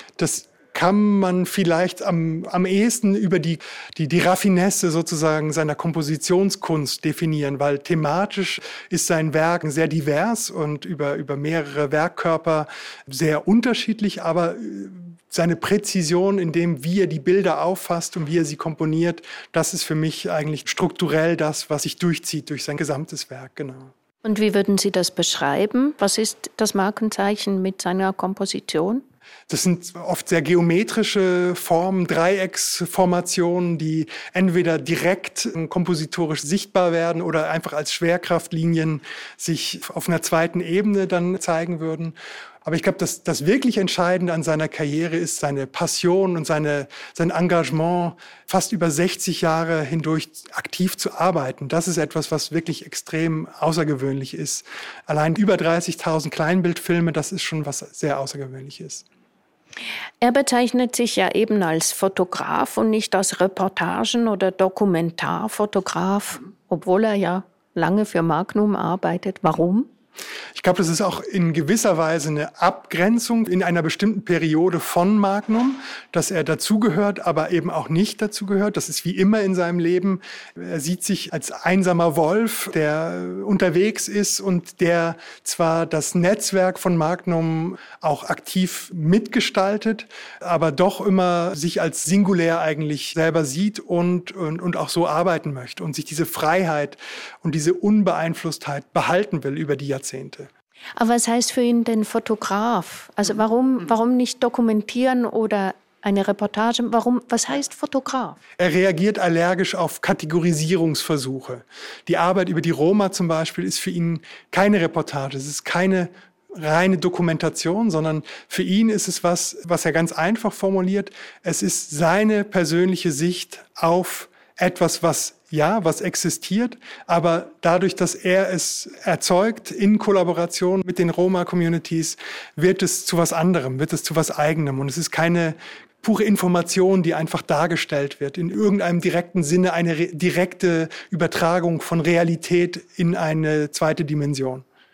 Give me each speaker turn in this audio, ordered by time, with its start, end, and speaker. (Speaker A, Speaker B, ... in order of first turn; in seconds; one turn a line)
Speaker A: 0.2-23.9
Speaker B: 24.2-29.0
Speaker A: 29.5-59.0
Speaker B: 60.2-69.9
Speaker A: 70.5-100.5
Speaker B: 101.0-108.4
Speaker A: 108.6-144.6